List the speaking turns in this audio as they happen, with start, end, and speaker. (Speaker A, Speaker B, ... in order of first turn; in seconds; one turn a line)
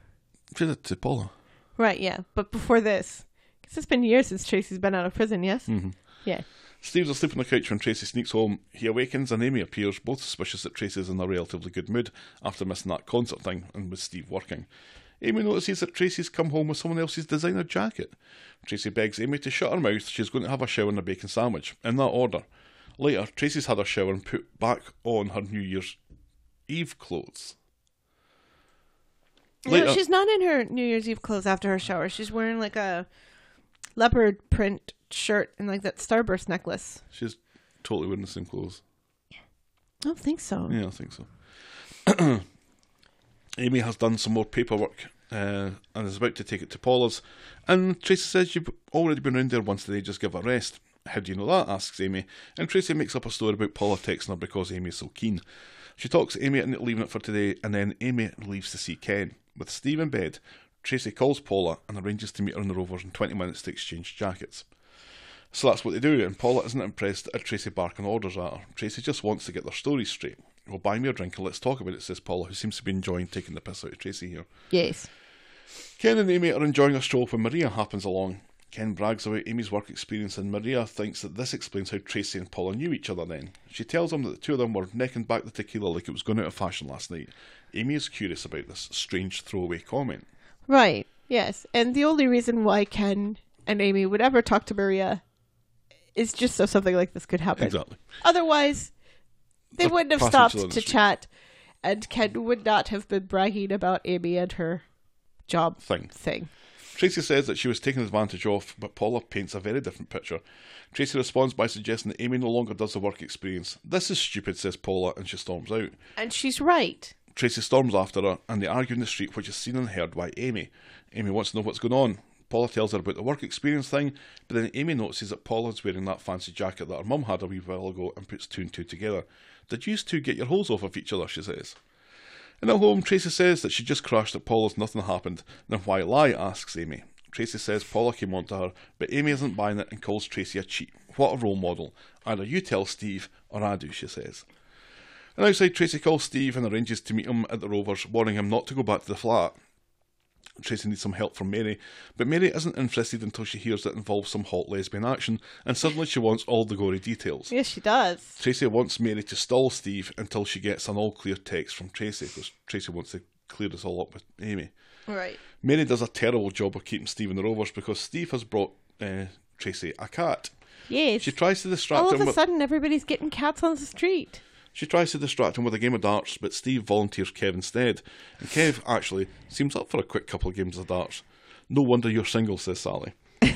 Speaker A: 0.5-1.3
Speaker B: 1.8-6.4
Speaker A: 5.7-6.0
Speaker A: 6.8-14.7
Speaker A: 15.2-22.4
Speaker A: 23.0-26.0
Speaker A: 26.7-27.6
Speaker A: 29.6-30.0
Speaker B: 29.6-33.1
Speaker B: 34.0-37.0
Speaker A: 37.1-38.8
Speaker B: 40.0-40.8
Speaker A: 40.7-41.3
Speaker A: 42.0-42.5
Speaker A: 43.6-55.4
Speaker A: 56.0-64.7
Speaker A: 65.5-74.5
Speaker B: 74.7-75.1
Speaker A: 76.0-90.2
Speaker B: 90.7-95.2
Speaker B: 96.1-98.9
Speaker A: 97.6-98.0
Speaker B: 99.8-101.3
Speaker A: 99.8-101.0
Speaker B: 101.8-104.8
Speaker B: 105.5-106.5
Speaker A: 105.8-106.1
Speaker A: 106.9-116.0
Speaker B: 116.2-117.1
Speaker A: 117.3-131.8
Speaker A: 132.6-144.4
Speaker A: 145.3-149.6
Speaker A: 150.6-157.5
Speaker B: 157.5-158.4
Speaker A: 158.4-164.7
Speaker B: 165.1-165.4
Speaker A: 165.6-170.5
Speaker B: 170.9-171.3
Speaker A: 171.2-172.4
Speaker B: 171.9-174.4
Speaker A: 174.7-183.2